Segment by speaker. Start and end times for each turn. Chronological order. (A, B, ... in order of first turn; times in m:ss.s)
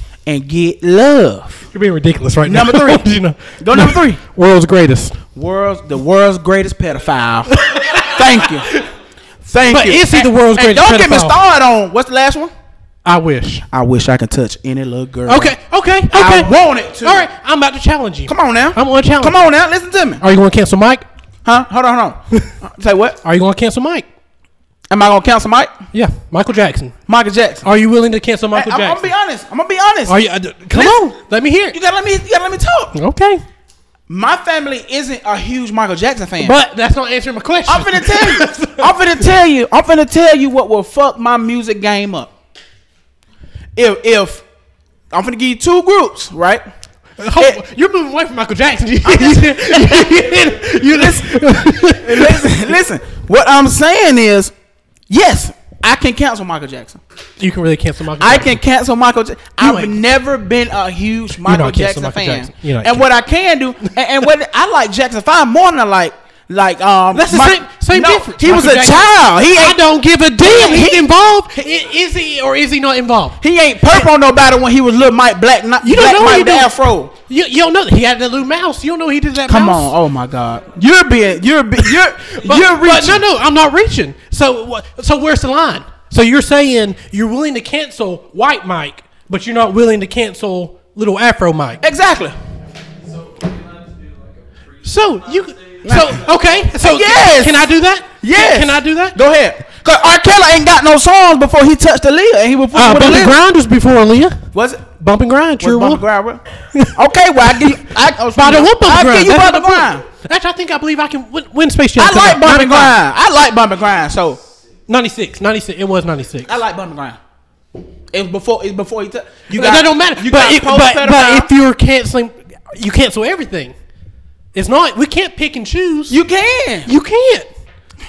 0:00.3-0:01.7 A
0:01.7-0:05.2 B
0:02.4-0:03.1 A
0:03.6-0:04.2 A
0:05.4-0:08.7 A
0:07.5-0:08.9 B
0:09.4-0:12.5 A
0:09.7-0:11.4 B
0:13.0-0:13.6 B
0:13.7-0:15.6 A
0:15.3-0:19.4 B
0:16.1-0:17.3 A
0:18.3-0:20.2 A
0:20.2-0:21.0 B
0:21.4-0:23.2 A
0:23.2-0:24.1 B
0:24.9-0:25.7 A
0:25.9-0:27.0 B
0:27.1-0:27.7 A
0:27.6-0:29.1 B
0:28.5-0:30.2 A
0:30.1-0:31.8 B
0:30.7-0:31.0 A
0:31.7-0:33.0 A
0:32.9-0:33.4 B
0:34.1-0:36.6 A
0:36.4-0:39.0 B
0:37.7-0:42.3 A
0:43.8-0:44.4 A
0:45.1-0:46.6 A
0:47.2-0:52.6 B
0:49.0-0:54.5 A
0:55.1-0:57.0 A
0:57.4-0:58.6 B
0:58.2-1:09.8 A
0:59.6-0:59.9 B
1:01.4-1:03.0 B
1:07.1-1:13.4 B
1:10.4-1:11.0 A
1:13.4-1:17.1 A
1:15.8-1:16.7 B
1:17.3-1:19.9 B
1:19.5-1:23.2 A
1:22.4-1:31.8 B
1:31.8-1:32.4 A
1:33.0-1:36.7 C
1:34.8-1:39.2 B
1:35.8-1:36.2 A
1:36.8-1:37.7 A
1:38.2-1:43.4 A
1:42.7-1:44.4 B
1:44.5-1:44.8 A
1:45.0-1:46.0 B
1:45.6-1:50.0 A
1:48.3-1:53.0 B
1:52.0-1:54.4 A
1:54.9-1:56.5 B
1:56.4-1:57.2 A
1:58.1-2:01.5 A
1:59.5-2:03.7 B
2:04.6-2:06.2 B
2:06.1-2:06.9 A
2:06.9-2:07.5 B